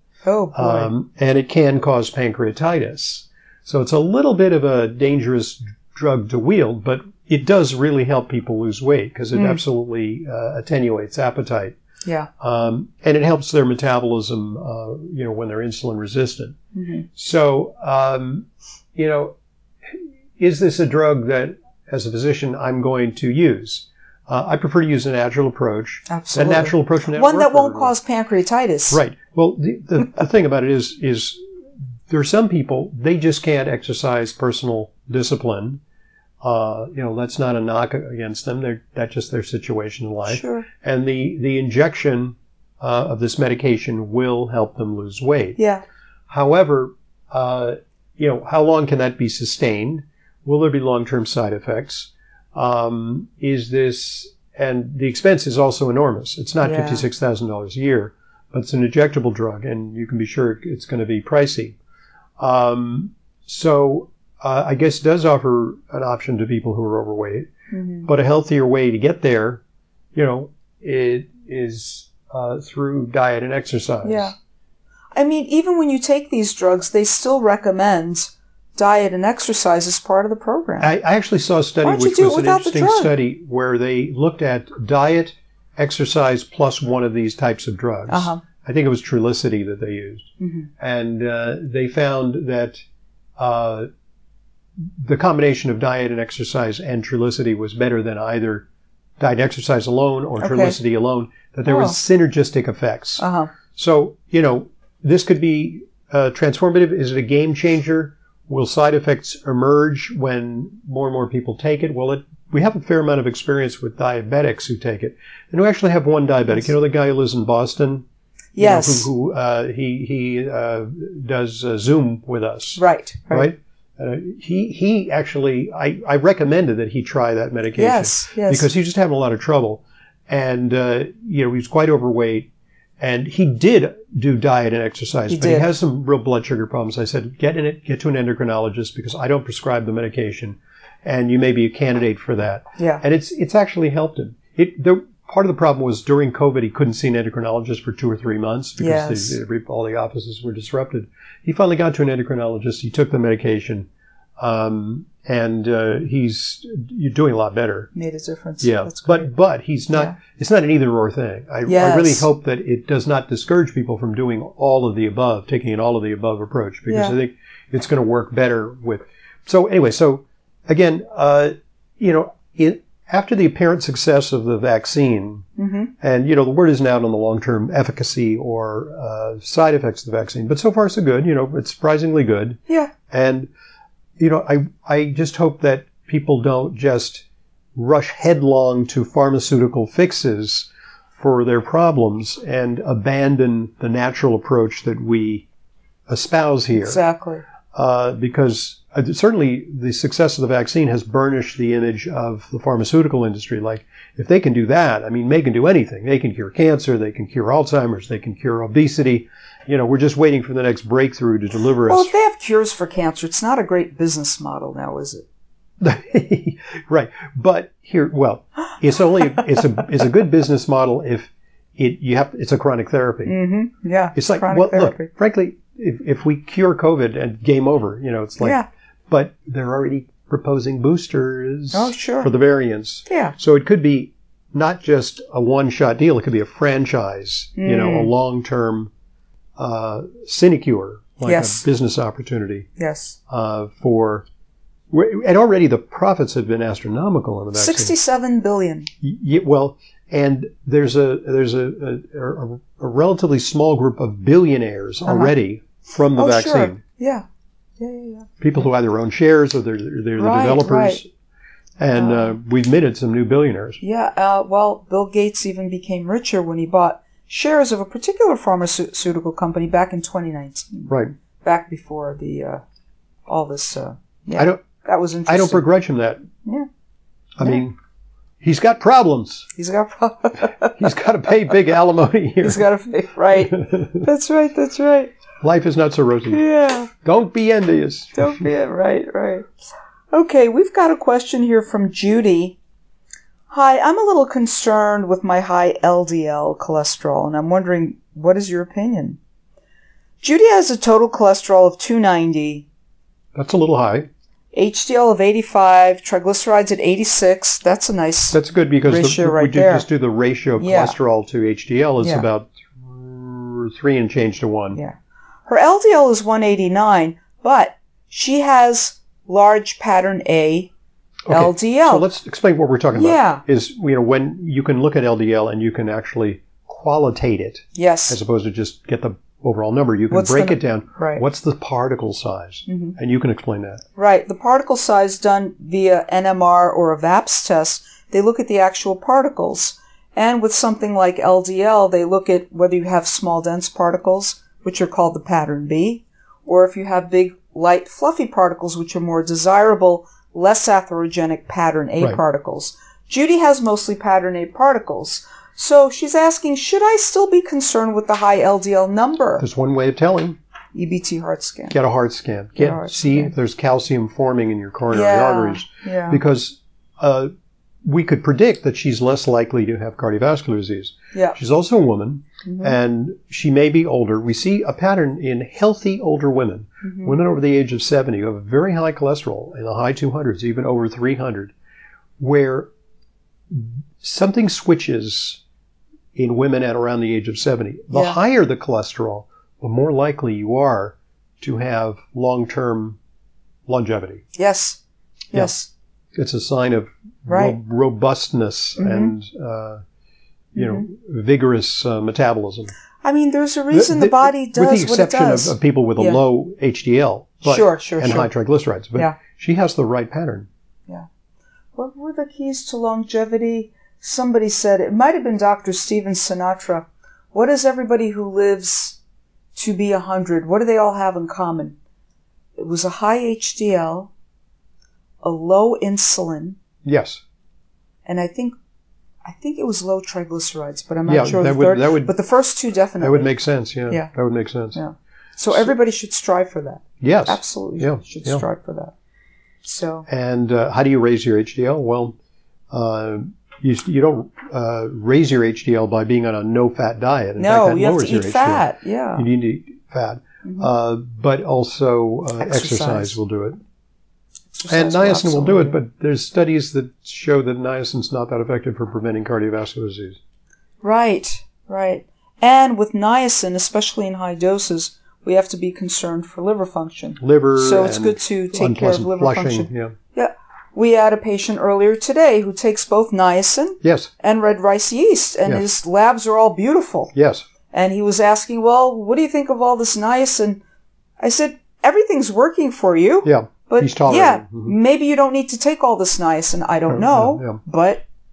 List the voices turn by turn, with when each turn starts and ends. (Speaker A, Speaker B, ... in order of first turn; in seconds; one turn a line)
Speaker A: 0.2-0.9
Speaker B: 0.5-11.8
Speaker A: 9.3-9.6
Speaker B: 12.4-16.6
Speaker A: 16.7-17.1
Speaker B: 17.1-19.3
Speaker B: 19.9-27.9
Speaker A: 26.1-29.0
Speaker B: 28.9-31.4
Speaker B: 32.1-35.8
Speaker B: 36.4-45.6
Speaker A: 40.3-40.7
Speaker A: 45.6-45.8
Speaker B: 46.3-61.8
Speaker A: 56.6-57.0
Speaker B: 62.4-67.5
Speaker A: 67.7-68.1
Speaker B: 68.0-69.6
Speaker B: 70.1-74.3
Speaker A: 74.0-74.3
Speaker A: 75.1-80.9
Speaker B: 80.8-92.8
Speaker A: 81.8-83.1
Speaker A: 88.1-88.4
Speaker A: 90.4-90.7
Speaker B: 93.4-93.9
Speaker B: 95.0-98.7
Speaker B: 99.2-118.0
Speaker A: 100.4-100.8
Speaker A: 101.7-102.0
Speaker A: 103.2-103.5
Speaker A: 118.5-119.1
Speaker B: 118.6-132.5
Speaker A: 122.8-123.5
Speaker A: 127.8-128.7
Speaker B: 133.0-153.9
Speaker A: 135.3-135.7
Speaker A: 142.8-143.0
Speaker A: 148.8-149.4
Speaker B: 154.4-157.9
Speaker A: 157.9-159.3
Speaker B: 158.6-175.5
Speaker A: 161.6-162.2
Speaker A: 166.9-167.1
Speaker A: 175.6-175.9
Speaker B: 176.0-183.5
Speaker B: 184.2-195.4
Speaker B: 196.1-197.0
Speaker A: 196.7-197.4
Speaker B: 197.7-212.1
Speaker A: 211.9-215.2
Speaker B: 215.8-223.3
Speaker A: 223.2-225.1
Speaker B: 224.1-238.9
Speaker A: 228.4-228.7
Speaker A: 231.7-232.3
Speaker A: 233.1-233.3
Speaker A: 237.6-238.1
Speaker B: 239.6-242.7
Speaker A: 241.2-241.6
Speaker A: 242.8-243.2
Speaker B: 243.3-244.2
Speaker B: 244.9-247.9
Speaker A: 247.5-248.9
Speaker B: 249.0-256.8
Speaker A: 255.0-255.3
Speaker A: 256.1-257.2
Speaker A: 257.8-258.3
Speaker B: 258.4-261.1
Speaker A: 260.2-261.0
Speaker B: 261.8-263.8
Speaker A: 261.9-262.3
Speaker A: 263.8-270.9
Speaker B: 270.9-271.1
Speaker A: 271.4-272.6
Speaker A: 273.3-275.6
Speaker B: 274.3-274.6
Speaker B: 275.3-276.2
Speaker B: 277.4-277.8
Speaker B: 278.4-279.5
Speaker A: 279.6-280.9
Speaker B: 280.6-282.7
Speaker A: 282.4-285.1
Speaker B: 283.4-284.0
Speaker B: 285.4-288.3
Speaker A: 286.3-286.9
Speaker A: 288.1-289.5
Speaker A: 290.1-292.6
Speaker A: 293.5-299.2
Speaker A: 300.2-302.6
Speaker B: 303.3-304.1
Speaker A: 304.5-309.9
Speaker B: 308.3-314.8
Speaker A: 310.6-310.9
Speaker A: 314.7-320.7
Speaker B: 321.3-333.8
Speaker A: 321.3-322.1
Speaker A: 322.9-323.4
Speaker A: 327.7-328.2
Speaker A: 330.1-331.2
Speaker A: 332.7-332.9
Speaker A: 333.9-359.4
Speaker B: 359.4-360.4
Speaker A: 360.7-361.7
Speaker B: 361.7-367.3
Speaker A: 362.6-363.3
Speaker A: 364.9-366.2
Speaker B: 367.8-381.5
Speaker A: 372.4-372.7
Speaker A: 376.8-377.1
Speaker B: 382.2-382.7
Speaker B: 383.5-385.4
Speaker B: 386.1-393.0
Speaker A: 387.9-388.2
Speaker B: 393.7-394.2
Speaker A: 394.3-394.8
Speaker A: 395.3-395.7
Speaker B: 396.1-399.8
Speaker A: 397.3-397.5
Speaker A: 398.8-399.1
Speaker B: 400.5-402.7
Speaker A: 400.6-400.9
Speaker A: 403.0-406.2
Speaker B: 403.7-410.5
Speaker A: 407.4-408.3
Speaker A: 411.7-419.0
Speaker A: 419.5-421.7
Speaker A: 422.6-424.1
Speaker A: 425.2-426.6
Speaker B: 426.8-427.2
Speaker A: 428.1-428.5
Speaker A: 429.2-433.3
Speaker B: 431.1-432.1
Speaker B: 433.0-434.8
Speaker A: 434.7-438.9
Speaker B: 437.0-438.4
Speaker A: 439.6-440.1
Speaker B: 440.1-442.1
Speaker B: 442.7-453.6
Speaker A: 447.4-449.2
Speaker A: 452.4-453.2
Speaker A: 454.6-455.8
Speaker B: 454.7-460.2
Speaker A: 460.8-477.1
Speaker B: 467.2-469.9
Speaker B: 473.8-474.1
Speaker B: 477.1-477.4
Speaker A: 477.7-480.6
Speaker A: 481.2-488.0
Speaker B: 483.2-484.7
Speaker B: 486.9-487.6